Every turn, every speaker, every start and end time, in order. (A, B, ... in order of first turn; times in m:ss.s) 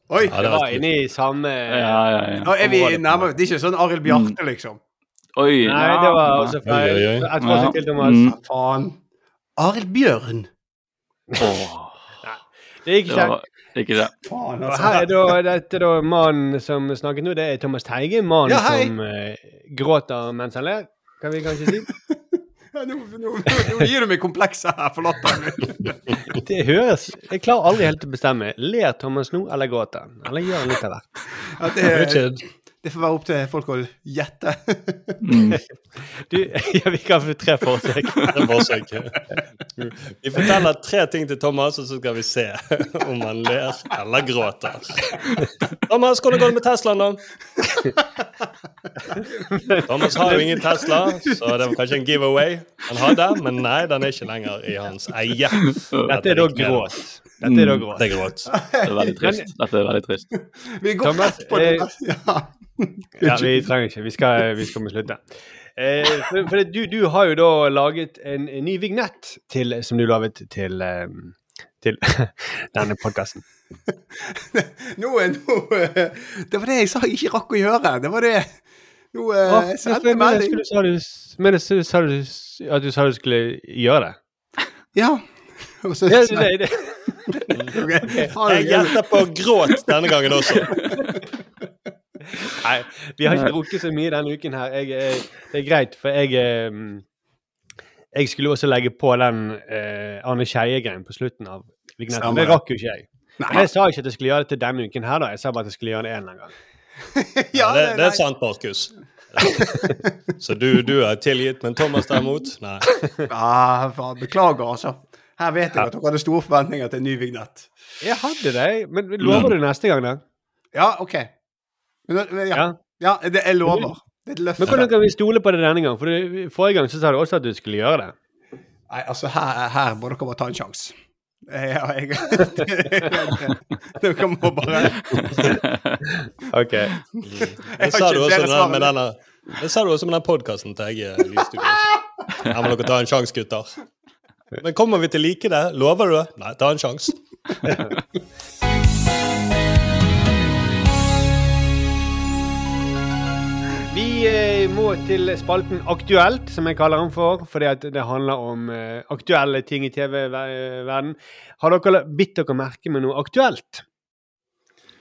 0:00.1-0:00.3 A
0:00.3-0:00.8 B
0:00.4-0:02.0 C
0:01.7-0:02.5 D
0:02.4-0:04.8 A
0:04.1-0:04.4 D
0:05.4-0:06.6 D
0:05.6-0:08.2 C
0:06.6-0:07.3 B
0:07.4-0:08.3 D
0:08.2-0:09.0 A
0:09.6-0:10.5 A
0:11.4-0:12.0 D
0:12.2-0:13.3 C
0:13.1-0:14.1 D
0:14.2-0:15.4 A
0:14.7-0:21.9 C
0:18.5-0:18.9 A
0:21.9-0:26.1 A
0:26.4-0:31.2 C
0:31.5-0:35.2 A
0:31.9-0:32.4 B
0:35.2-0:35.6 D
0:36.3-0:38.4 C
0:38.3-0:39.3 B
0:40.1-0:45.1 B
0:45.9-0:47.2 B
0:49.2-0:50.4 C
0:49.2-0:49.4 A
0:49.9-0:56.8 B
0:51.3-0:51.8 A
0:56.0-0:58.0 C
0:57.4-0:57.9 D
0:58.0-0:58.5 B
0:58.6-0:59.1 A
0:58.8-1:00.3 D
0:59.2-0:59.5 C
1:00.8-1:03.7 A
1:01.0-1:01.9 C
1:03.2-1:05.2 C
1:05.8-1:13.4 C
1:14.2-1:18.6 A
1:19.1-1:20.6 A
1:19.5-1:24.2 C
1:25.0-1:26.5 A
1:26.1-1:27.2 C
1:27.3-1:29.0 A
1:28.0-1:28.3 C
1:28.4-1:30.7 B
1:30.7-1:31.2 A
1:32.6-1:37.0 C
1:38.2-1:46.5 C
1:42.1-1:42.6 A
1:43.4-1:43.7 A
1:47.2-1:48.2 A
1:47.6-1:49.7 B
1:49.8-1:50.1 A
1:50.4-1:52.9 B
1:53.3-1:58.2 A
1:58.0-2:00.2 C
1:59.2-1:59.5 B
2:00.7-2:01.3 A
2:02.1-2:04.9 A
2:04.6-2:08.1 C
2:08.9-2:15.2 A
2:15.1-2:16.0 D
2:16.5-2:17.0 C
2:17.3-2:23.8 B
2:17.4-2:18.9 A
2:24.6-2:27.8 B
2:33.9-2:43.8 C